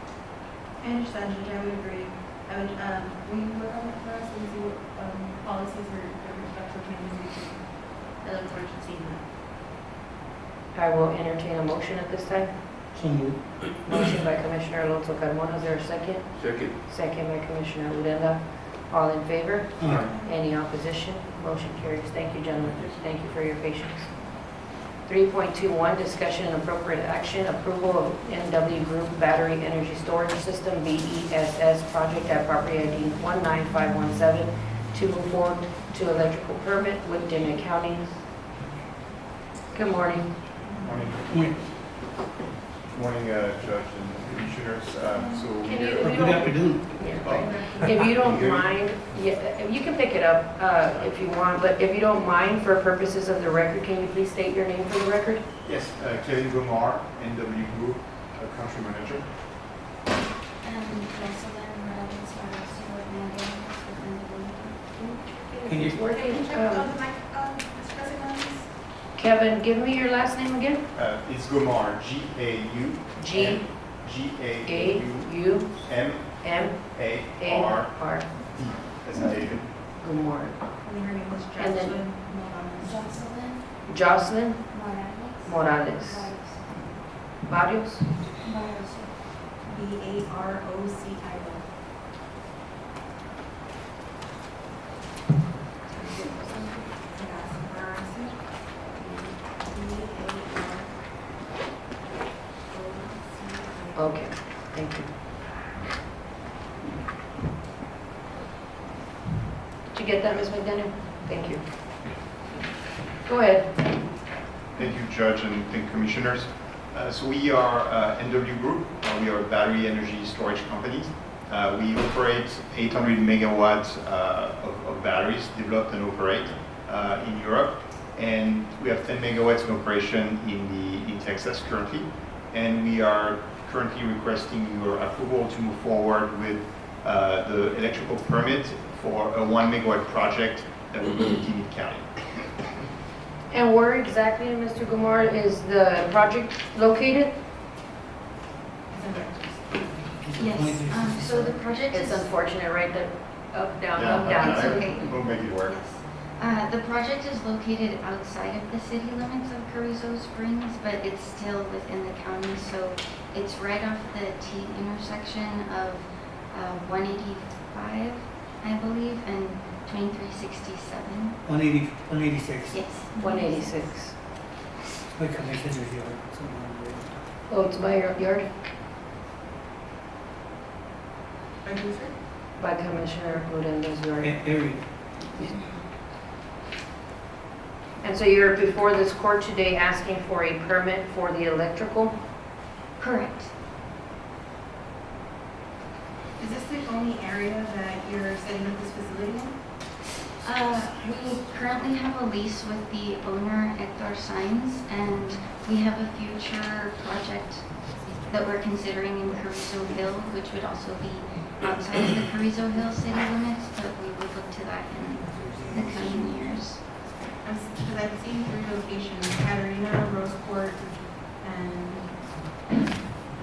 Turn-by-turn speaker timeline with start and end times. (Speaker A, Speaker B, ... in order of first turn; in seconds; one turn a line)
Speaker A: 0.8-9.2
Speaker B: 10.7-12.7
Speaker C: 12.9-13.7
Speaker B: 13.8-24.1
Speaker C: 19.8-20.1
Speaker D: 19.8-20.1
Speaker B: 25.1-38.1
Speaker B: 39.7-40.3
Speaker A: 40.6-41.0
Speaker D: 40.8-41.5
Speaker C: 41.3-41.6
Speaker D: 42.9-46.2
Speaker A: 45.1-45.5
Speaker B: 45.6-55.4
Speaker C: 46.0-47.3
Speaker A: 47.2-48.1
Speaker D: 47.2-48.7
Speaker D: 50.9-51.1
Speaker D: 55.6-59.3
Speaker E: 60.6-65.0
Speaker A: 65.0-68.7
Speaker C: 65.7-66.0
Speaker B: 65.7-66.9
Speaker B: 69.2-70.8
Speaker D: 71.0-79.7
Speaker B: 73.2-73.7
Speaker B: 74.7-75.8
Speaker B: 76.4-76.8
Speaker B: 77.4-78.3
Speaker B: 80.0-80.6
Speaker A: 80.8-83.2
Speaker B: 81.6-82.0
Speaker E: 82.8-83.7
Speaker B: 83.9-84.6
Speaker E: 84.7-87.0
Speaker B: 85.4-86.3
Speaker B: 87.5-88.0
Speaker E: 88.5-89.2
Speaker A: 89.6-91.7
Speaker A: 95.9-101.0
Speaker A: 102.7-104.2
Speaker B: 104.0-105.1
Speaker B: 109.9-111.6
Speaker B: 113.3-113.8
Speaker D: 114.8-142.2
Speaker B: 143.5-147.4
Speaker A: 148.9-150.0
Speaker C: 150.2-151.6
Speaker E: 150.4-152.3
Speaker B: 151.9-154.9
Speaker D: 153.9-155.8
Speaker E: 154.1-171.4
Speaker C: 171.5-172.9
Speaker E: 172.7-173.7
Speaker A: 173.1-173.5
Speaker B: 173.2-174.2
Speaker C: 175.2-177.2
Speaker B: 177.5-178.5
Speaker A: 181.6-182.2
Speaker B: 182.6-184.4
Speaker C: 184.2-184.9
Speaker E: 185.4-185.8
Speaker B: 188.0-192.2
Speaker E: 193.0-193.5
Speaker A: 196.4-199.6
Speaker E: 200.4-216.8
Speaker C: 215.2-216.3
Speaker A: 216.0-216.4
Speaker A: 217.4-222.2